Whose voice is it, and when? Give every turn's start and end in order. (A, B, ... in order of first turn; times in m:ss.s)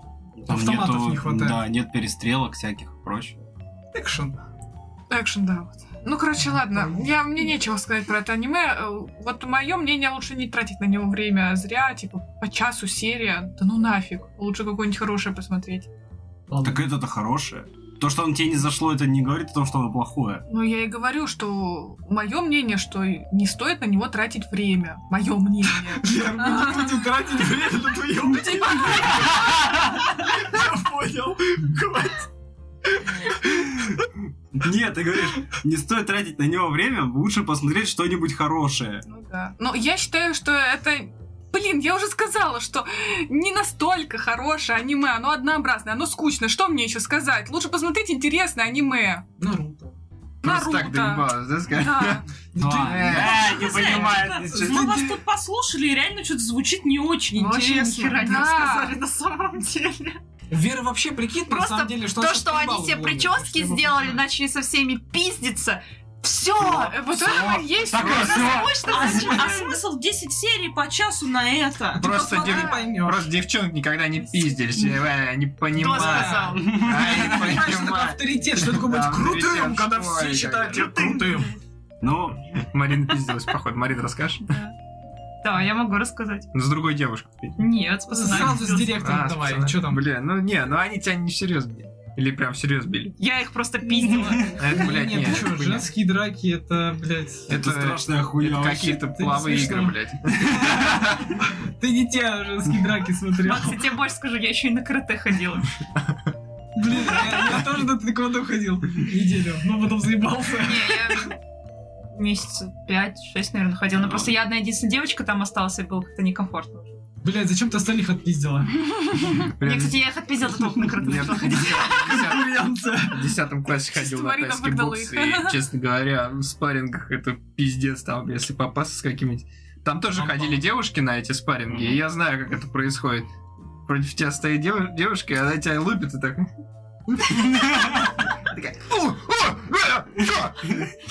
0:00.4-0:03.5 A
0:00.5-0:01.6 B
0:03.9-0:04.4 B
0:05.1-0:15.9 C
0:06.4-0:07.1 B
0:16.5-0:16.9 B
0:16.6-0:20.4 A
0:20.5-0:26.8 C
0:25.9-0:32.3 B
0:28.4-0:29.0 C
0:32.9-0:34.0 B
0:34.5-0:39.0 A
0:39.1-0:49.3 C
0:49.4-0:50.0 B
0:50.4-0:52.2 C
0:50.4-0:53.9 D
0:52.5-0:55.1 B
0:52.6-0:55.1 A
0:53.1-0:58.3 E
0:57.3-1:00.2 F
0:58.1-0:59.0 C
1:00.5-1:04.2 B
1:01.5-1:07.4 F
1:06.6-1:06.9 A
1:06.9-1:08.7 C
1:07.2-1:08.7 D
1:07.5-1:09.5 A
1:07.9-1:09.8 F
1:08.8-1:12.0 E
1:12.0-1:13.3 B
1:12.0-1:21.1 D
1:15.7-1:16.9 F
1:15.8-1:21.6 B
1:16.3-1:17.7 A
1:20.9-1:21.6 F
1:22.0-1:22.6 A
1:22.7-1:24.6 D
1:24.5-1:24.7 F
1:25.4-1:26.5 F
1:26.5-1:27.6 D
1:27.6-1:29.0 F
1:28.1-1:30.0 B
1:28.4-1:33.1 D
1:33.2-1:34.8 F
1:33.9-1:37.6 B
1:34.1-1:34.4 A
1:34.6-1:35.9 D
1:37.5-1:39.1 A
1:37.5-1:41.3 D
1:39.1-1:40.0 B
1:41.4-1:43.9 B
1:43.4-1:45.7 F
1:46.8-1:51.2 B
1:50.6-1:51.4 F
1:52.1-1:57.0 F
1:54.0-1:54.3 A
1:57.2-1:59.4 B
1:59.4-2:00.0 D
1:59.6-2:02.2 F
2:01.0-2:13.3 D
2:02.0-2:03.3 B
2:04.0-2:05.6 C
2:10.1-2:10.6 B
2:13.8-2:16.5 D
2:17.1-2:20.9 D